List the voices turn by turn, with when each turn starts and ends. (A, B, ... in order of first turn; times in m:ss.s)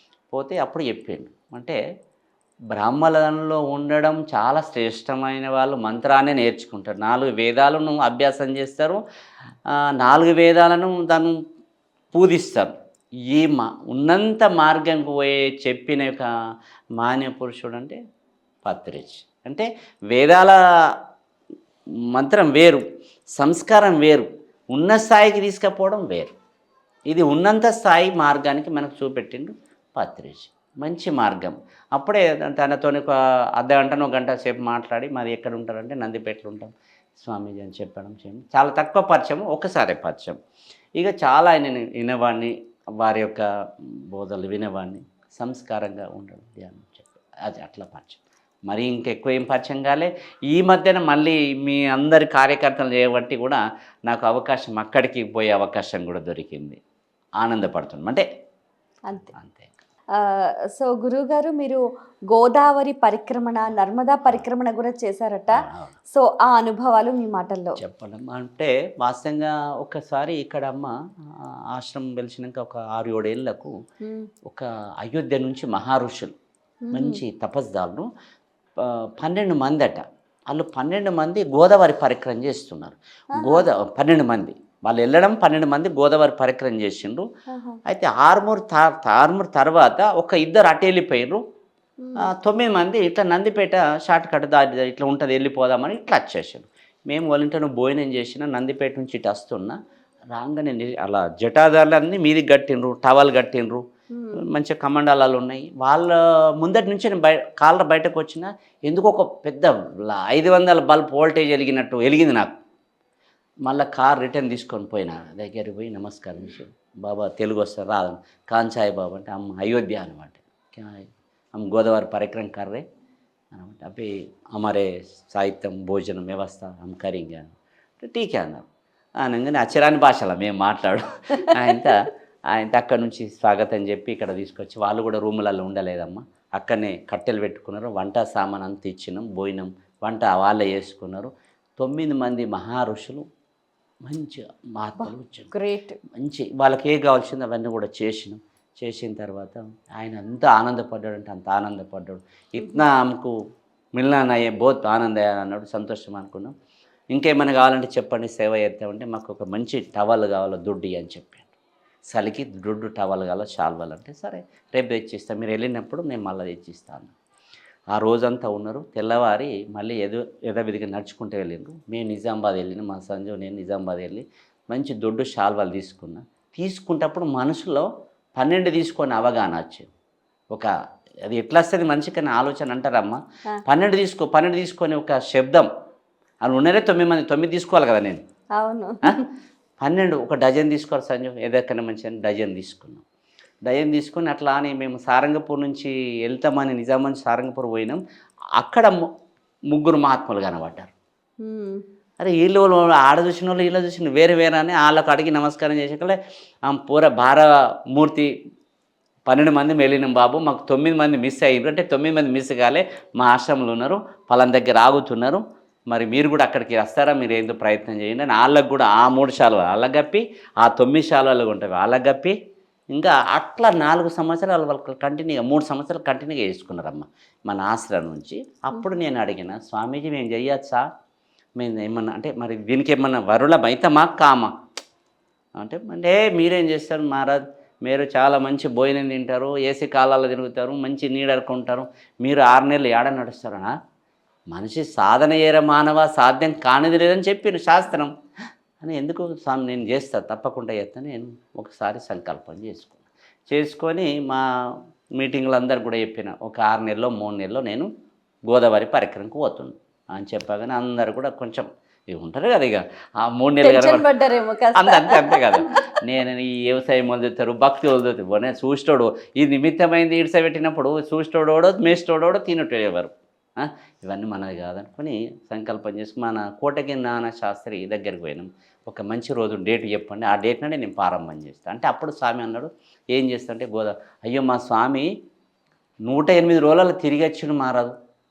0:00.3-0:01.8 A
0:02.7-0:09.0 A
0:10.0-0:11.4 A
0:12.1-0:12.7 A
0:13.3-0:16.3 A
0:17.0-0:18.0 A
0:18.6-0:20.6 A
0:22.1-0:22.8 A
0:23.4-0:26.3 A
0:27.1-0:40.4 A
0:41.0-0:56.8 A
0:57.4-0:58.3 A
0:59.3-0:59.7 A
1:00.2-1:05.6 B
1:05.6-1:05.9 A
1:06.1-1:07.8 B
1:07.8-1:10.9 A
1:11.7-1:13.7 A
1:14.0-1:14.3 B
1:14.5-1:16.4 A
1:16.9-1:17.2 B
1:16.9-1:18.1 A
1:18.8-1:27.3 A
1:23.4-1:23.7 B
1:27.5-1:27.8 B
1:27.9-1:31.4 A
1:32.0-1:32.3 B
1:32.2-1:39.8 A
1:40.3-1:43.8 A
1:44.1-1:44.4 B
1:44.4-1:52.5 A
1:53.7-2:02.8 A
2:03.5-2:07.5 A
2:08.0-2:08.7 A
2:09.2-2:12.0 A
2:12.5-2:23.2 A
2:24.1-2:25.5 A
2:25.0-2:26.0 B
2:26.2-2:33.4 A
2:34.0-2:36.5 A
2:37.1-2:41.5 A
2:42.1-2:47.1 A
2:47.9-2:57.9 A
2:58.4-2:59.9 A
3:01.3-3:05.7 A
3:06.4-3:08.2 A
3:08.6-3:09.2 B
3:09.8-3:13.0 A
3:13.6-3:18.0 A
3:18.6-3:18.9 A
3:19.7-3:20.9 A
3:21.4-3:21.8 B
3:22.2-3:28.3 A
3:29.3-3:42.4 A
3:42.9-3:50.8 A
3:51.6-3:54.5 A
3:55.6-4:03.7 A
4:04.5-4:08.1 A
4:08.8-4:14.4 A
4:15.2-4:17.9 A
4:18.5-4:24.1 A
4:23.6-4:25.8 B
4:24.7-4:45.1 A
4:46.1-4:47.9 A